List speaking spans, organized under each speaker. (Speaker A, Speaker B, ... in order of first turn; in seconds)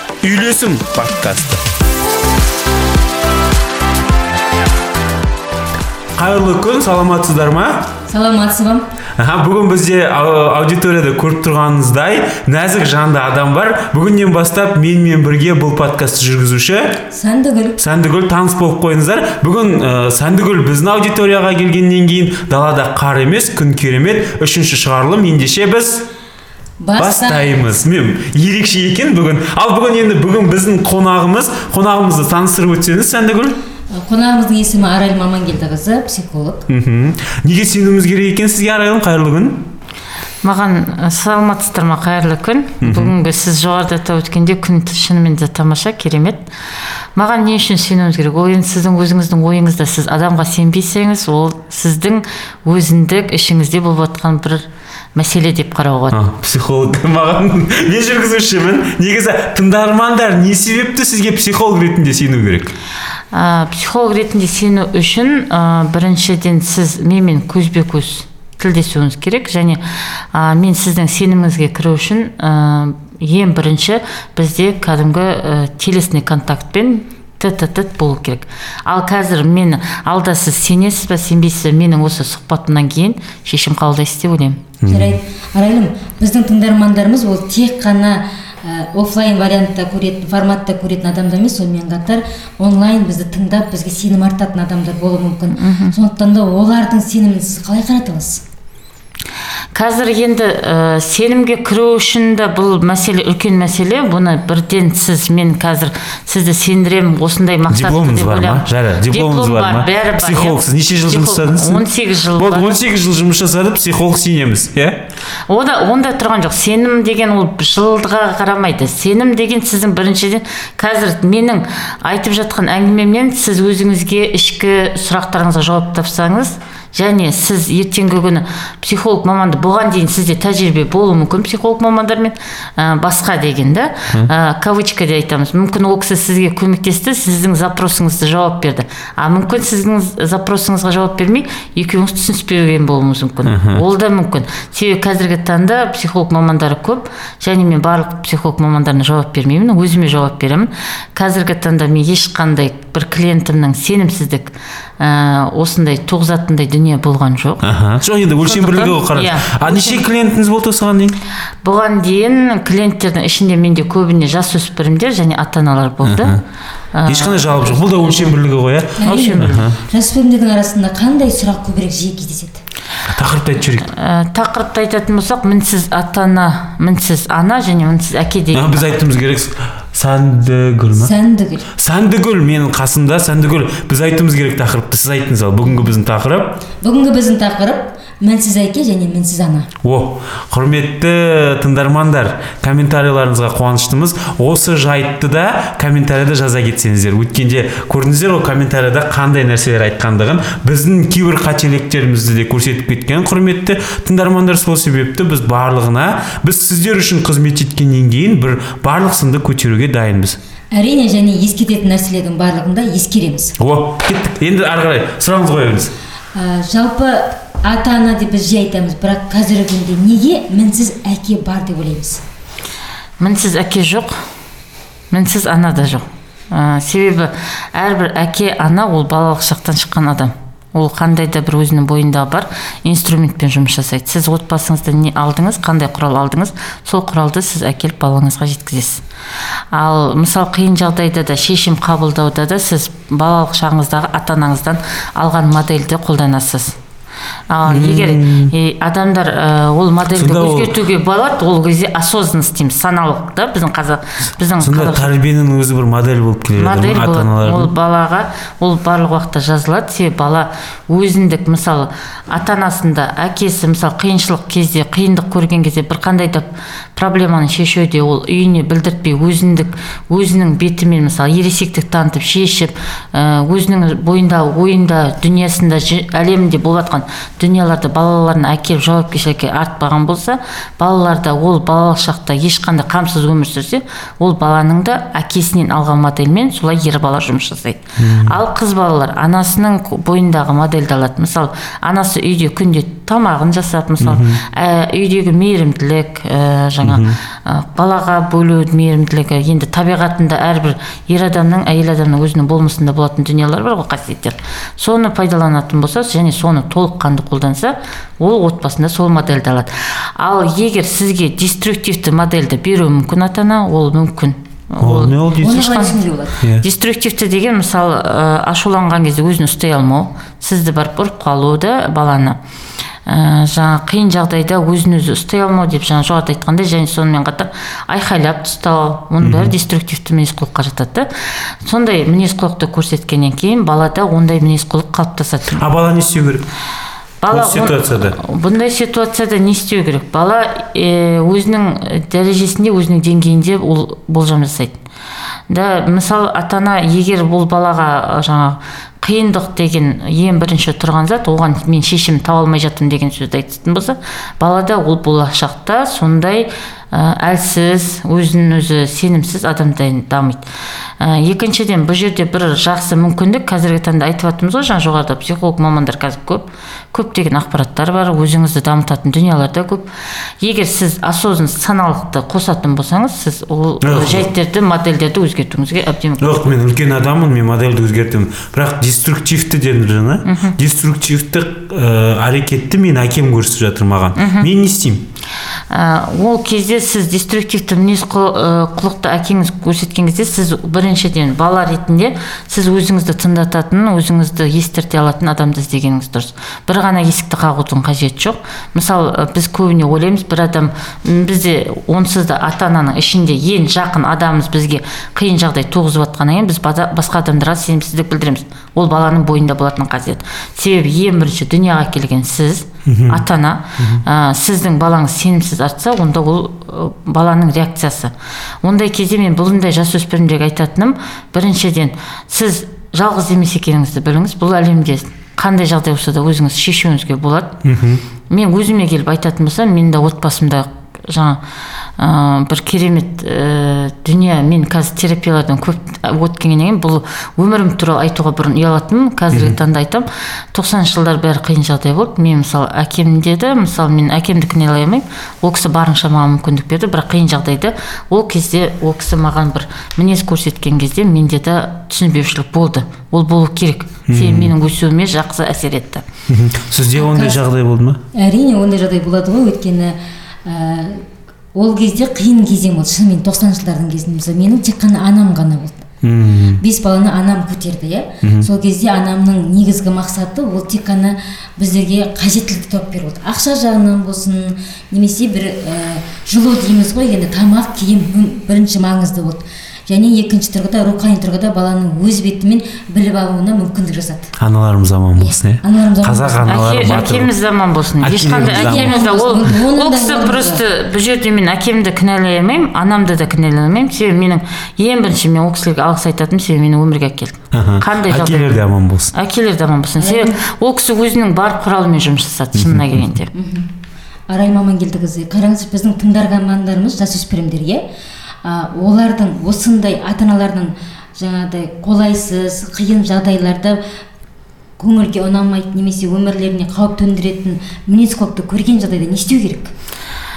Speaker A: 0.2-1.6, 6.2-7.9, 9.2-17.0, 17.8-26.1, 27.0-33.6, 36.7-39.7, 42.8-43.1, 56.1-62.7, 84.8-85.2, 107.7-115.0, 143.4-143.8, 157.6-161.2, 166.0-166.4, 167.1-169.8, 173.1-173.9, 178.5-181.1, 181.7-186.6, 189.8-210.4, 213.6-215.9, 247.6-248.5, 250.1-250.8, 254.6-257.7, 288.0-288.4, 294.0-294.4, 296.8-297.2, 314.8-315.6, 329.2-329.5, 335.6-336.5, 337.3-338.2, 373.8-374.3, 376.2-385.1, 412.8-413.2, 427.6-428.0, 439.3-439.6, 454.1-454.5, 456.3-458.0, 466.0-466.6, 468.2-468.5, 484.4-487.3, 488.0-489.0, 497.5-499.1, 502.5-503.1
Speaker B: 8.1-8.8, 17.1-17.8, 26.8-27.6, 33.9-36.6, 84.9-98.4, 169.0-172.6, 180.9-181.7, 185.7-185.9, 186.8-189.7, 210.7-213.6, 216.3-222.2, 315.4-316.4, 456.9-457.4, 458.1-461.0, 461.5-465.8, 466.6-484.3, 485.2-486.6, 488.4-490.6, 500.0-500.4, 503.3-503.7, 504.3-507.8, 508.4-513.8, 514.8-519.7
Speaker C: 40.4-46.4, 47.1-56.2, 63.3-84.6, 95.5-96.0, 99.7-112.8, 115.5-157.7, 158.4-160.1, 161.6-166.4, 166.9-168.3, 169.0-169.7, 173.8-179.0, 223.2-224.2, 225.1-239.0, 239.7-246.8, 247.5-255.1, 256.6-315.9, 316.6-322.4, 323.1-335.6, 337.2-344.8, 345.5-360.4, 361.0-369.9, 370.4-376.5, 380.2-380.6, 384.2-384.5, 385.7-427.6, 428.3-431.4, 432.0-456.0, 486.4-498.6, 499.1-503.3